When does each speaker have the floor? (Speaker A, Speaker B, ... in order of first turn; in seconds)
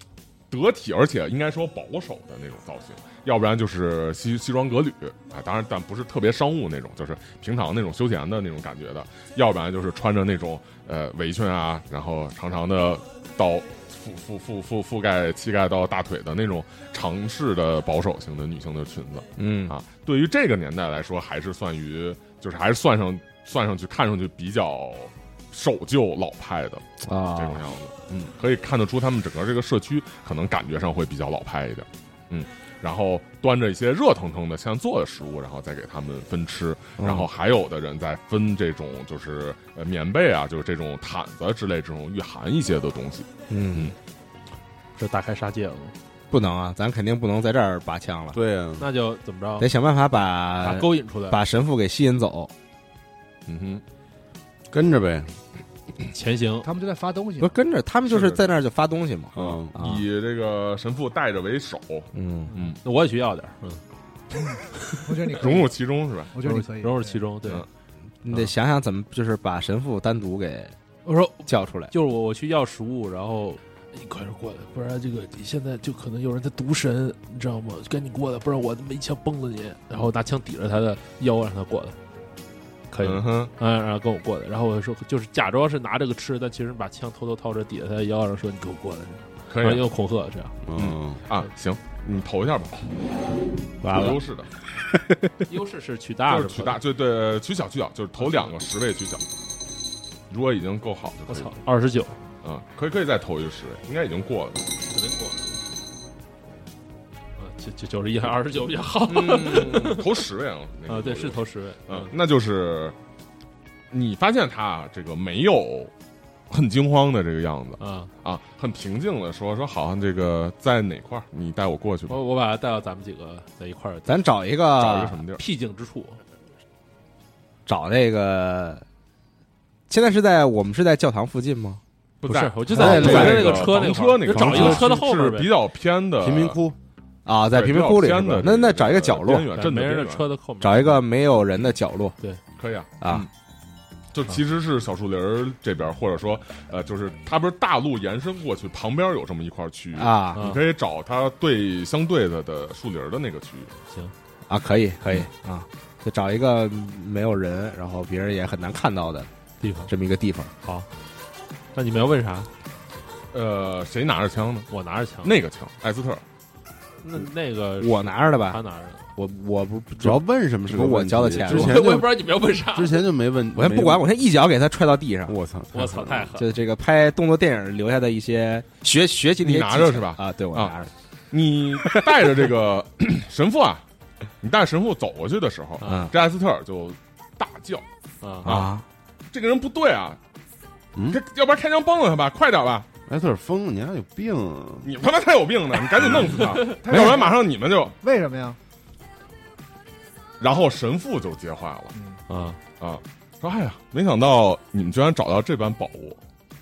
Speaker A: 0.5-44.0, 53.5-53.8, 58.1-58.5, 59.4-62.8, 65.4-66.3, 83.0-83.5, 89.5-89.9, 90.7-92.8, 93.9-94.5, 96.3-99.2, 100.3-101.6, 102.4-104.7, 109.1-113.0, 113.9-115.9, 116.5-122.2, 124.8-125.4, 132.2-136.6, 137.5-140.2, 142.6-143.3, 144.1-153.7, 163.3-164.7, 165.2-166.2, 179.4-180.8, 181.3-183.8, 184.4-187.8, 188.4-188.7, 189.3-190.2, 191.1-192.9, 194.8-197.9, 200.4-201.9, 202.8-206.2
Speaker B: 19.4-19.7, 27.1-27.6, 37.0-37.3, 43.5-44.0, 46.3-48.4, 49.6-52.5, 57.4-60.1, 62.1-62.5, 68.2-70.8, 71.5-71.9, 93.8-94.2, 94.7-95.4, 124.1-125.2, 127.7-128.8, 129.9-131.8, 132.8-133.5, 137.2-139.5, 140.6-142.2, 143.0-143.3, 149.9-150.4, 154.5-159.3, 159.9-160.5, 167.8-168.6, 169.2-171.9, 173.6-175.4, 176.3-180.9, 181.8-182.4, 185.8-186.1, 188.4-188.8
Speaker C: 45.0-46.0, 48.8-49.7, 50.6-51.4, 56.1-56.7, 62.5-63.8, 64.8-65.1, 66.4-67.7, 71.0-82.0, 82.9-90.6, 95.5-96.8, 98.2-98.5, 101.3-102.2, 104.8-105.5, 107.4-110.1, 110.9-112.1, 117.8-118.1, 122.1-124.2, 125.4-126.2, 132.2-135.5, 139.6-141.0, 150.3-150.6, 159.6-159.9, 161.7-162.5, 164.7-165.3, 167.0-169.1, 171.4-173.1, 175.7-176.5, 185.8-186.1, 188.2-188.5, 196.4-196.8, 202.3-202.6
Speaker D: 48.3-48.9, 54.7-55.3, 59.4-59.7, 90.7-91.2, 132.7-134.9, 136.2-136.8, 170.0-174.0, 175.3-176.4, 193.1-194.9
Speaker E: 56.6-57.5, 65.0-65.7, 66.3-67.2, 196.9-197.4, 198.0-198.6, 201.9-202.2